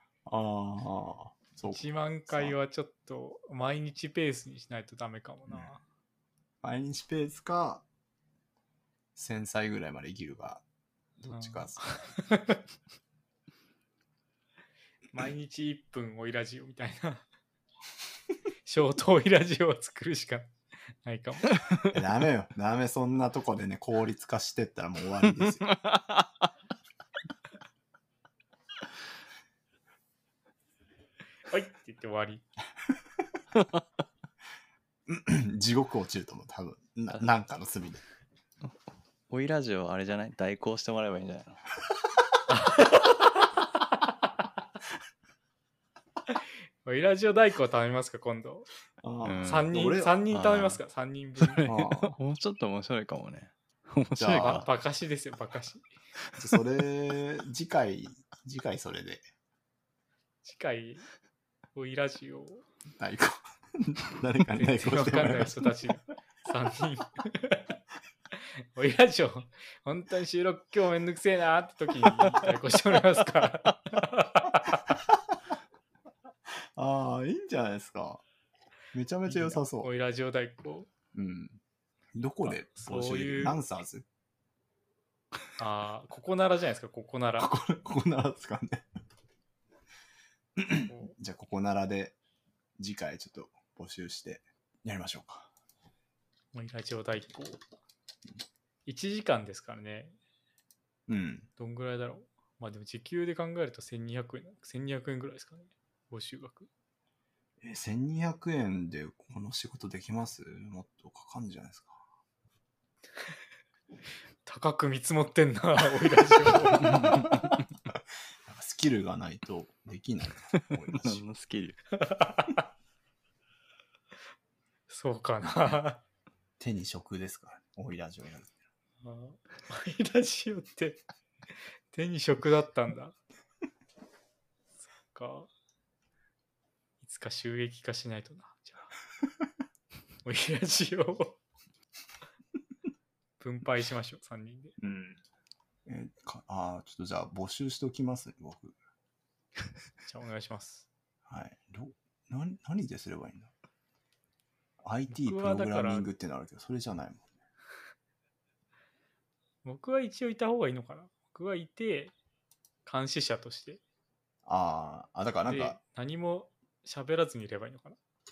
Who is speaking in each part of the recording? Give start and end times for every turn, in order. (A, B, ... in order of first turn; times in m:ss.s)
0:00.3-0:02.6 A
0:01.7-0:05.8 B
0:06.6-0:07.8 A
0:09.2-0:10.6 A
0:11.2-0:11.8 A
0:11.3-0:12.6 B
0:15.1-0:17.2 B
0:18.6-0:20.5 B
0:21.0-0:21.6 B
0:21.9-0:25.7 A
0:25.4-0:26.3 C
0:31.5-0:32.4 B
0:35.0-0:38.0 A
0:39.3-0:41.6 C
0:42.5-0:43.4 B
0:46.3-0:48.7 B
0:49.0-0:50.2 A
0:49.2-0:49.7 C
0:49.4-0:51.7 B
0:50.3-0:50.8 C
0:51.4-0:54.7 C
0:51.6-0:52.2 A
0:54.2-0:54.7 A
0:54.4-0:55.9 B
0:56.3-0:56.6 C
0:56.4-0:59.3 A
1:00.4-1:01.0 B
1:01.7-1:02.6 B
1:03.0-1:05.7 A
1:04.6-1:07.7 B
1:08.6-1:14.8 B
1:14.9-1:15.4 A
1:16.5-1:18.2 A
1:18.9-1:19.9 A
1:19.3-1:20.9 B
1:21.1-1:21.6 A
1:22.1-1:24.0 A
1:22.4-1:23.6 B
1:25.6-1:27.5 B
1:27.4-1:28.8 A
1:30.6-1:32.2 A
1:30.9-1:31.1 B
1:32.8-1:35.5 A
1:36.5-1:37.6 B
1:38.9-1:40.2 B
1:41.1-1:41.5 A
1:41.6-1:46.7 B
1:47.6-1:52.0 A
1:54.4-1:57.1 B
1:56.8-2:01.3 A
1:57.1-1:57.5 C
2:00.7-2:01.8 C
2:02.0-2:02.7 B
2:04.9-2:06.0 B
2:06.6-2:08.6 A
2:09.0-2:11.0 B
2:11.9-2:13.2 B
2:15.1-2:15.5 B
2:17.0-2:18.9 B
2:20.2-2:21.4 B
2:23.4-2:24.8 B
2:24.8-2:25.2 A
2:25.9-2:28.7 A
2:30.0-2:30.9 B
2:31.3-2:33.5 A
2:34.8-2:37.3 A
2:35.1-2:36.1 B
2:39.6-2:42.1 B
2:42.8-2:43.8 B
2:44.4-2:45.8 A
2:45.4-2:48.0 B